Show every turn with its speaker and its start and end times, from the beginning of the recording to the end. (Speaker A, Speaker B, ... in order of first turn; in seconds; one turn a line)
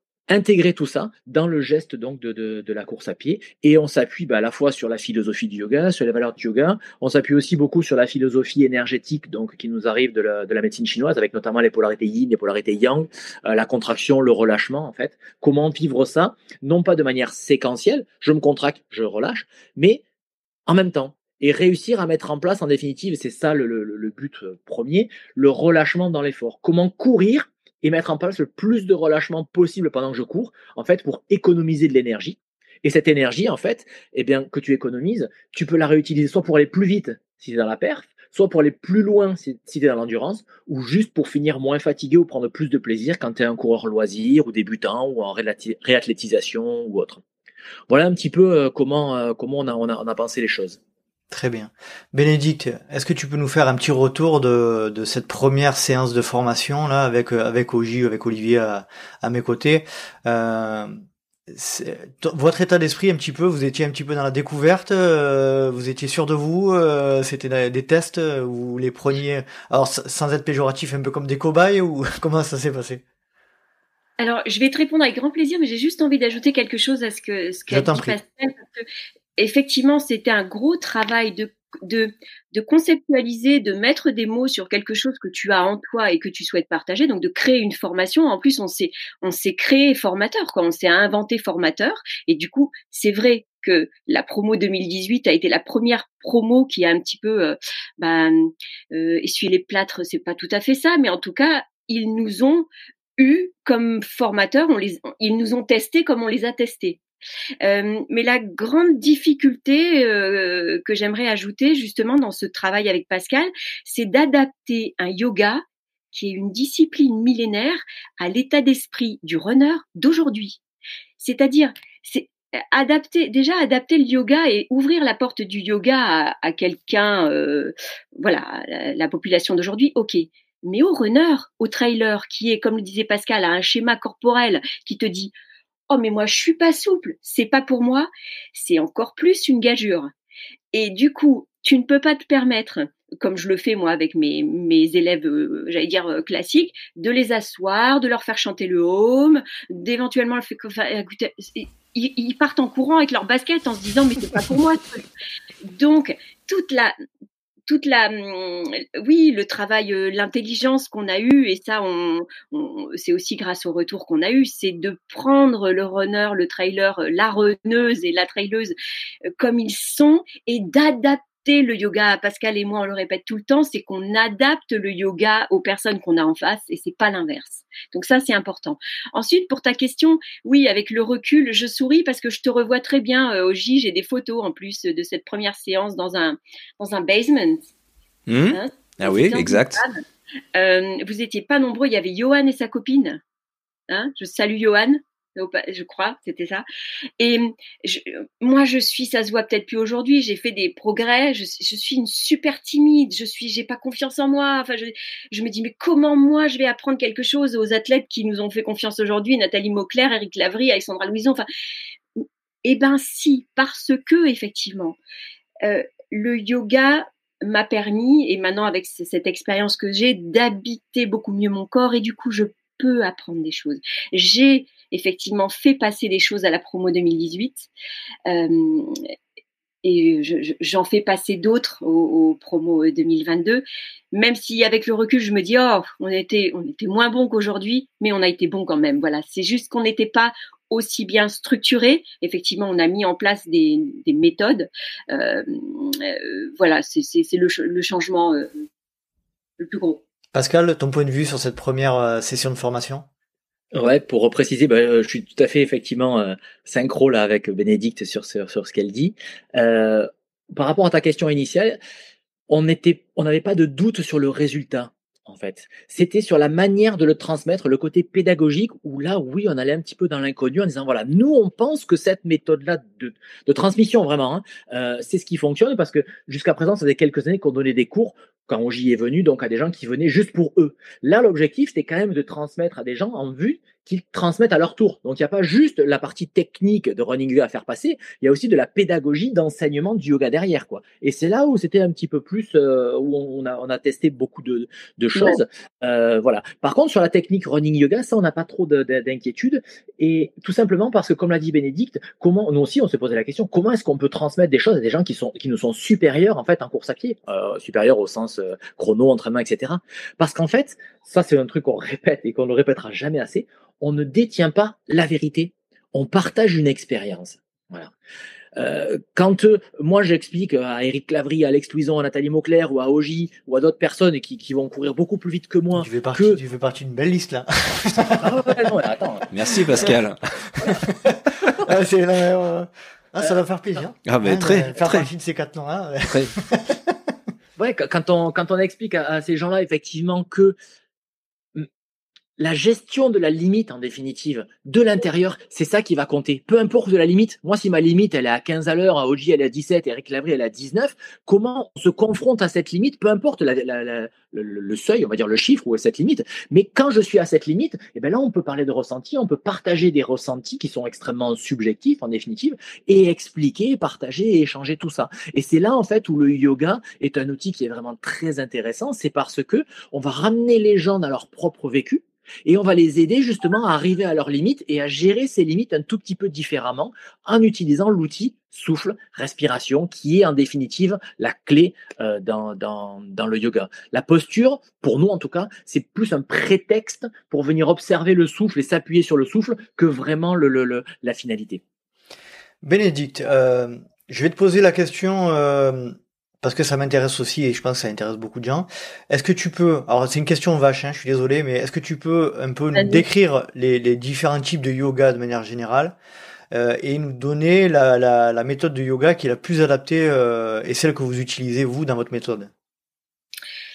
Speaker A: 0.3-20.0
Speaker A: 20.7-47.2
Speaker A: 47.9-50.8
Speaker B: 51.3-60.9
Speaker B: 61.5-73.0
Speaker C: 74.2-78.9
Speaker B: 77.7-78.2
Speaker C: 79.4-102.7
Speaker C: 103.2-107.0
Speaker C: 107.6-120.6
Speaker C: 121.2-135.3
Speaker C: 135.9-140.1
Speaker C: 140.7-155.0
Speaker C: 155.7-157.0
Speaker C: 157.7-168.8
Speaker C: 169.4-187.6
Speaker D: 188.3-189.8
Speaker C: 188.5-190.0
Speaker C: 190.6-193.2
Speaker C: 193.9-196.7
Speaker C: 197.2-211.5
Speaker C: 212.2-215.0
Speaker C: 215.6-227.7
Speaker C: 228.3-229.1
Speaker C: 229.8-248.7
Speaker C: 249.6-250.0
Speaker B: 250.3-253.1
Speaker A: 253.7-261.8
Speaker A: 262.5-317.9
Speaker A: 318.6-326.4
Speaker B: 325.8-328.7
Speaker A: 328.2-329.9
Speaker D: 329.3-330.6
Speaker B: 330.7-336.9
Speaker D: 334.1-335.1
Speaker A: 337.6-340.6
Speaker A: 342.4-391.6
Speaker B: 392.6-406.0
Speaker C: 402.8-403.0
Speaker B: 406.5-412.5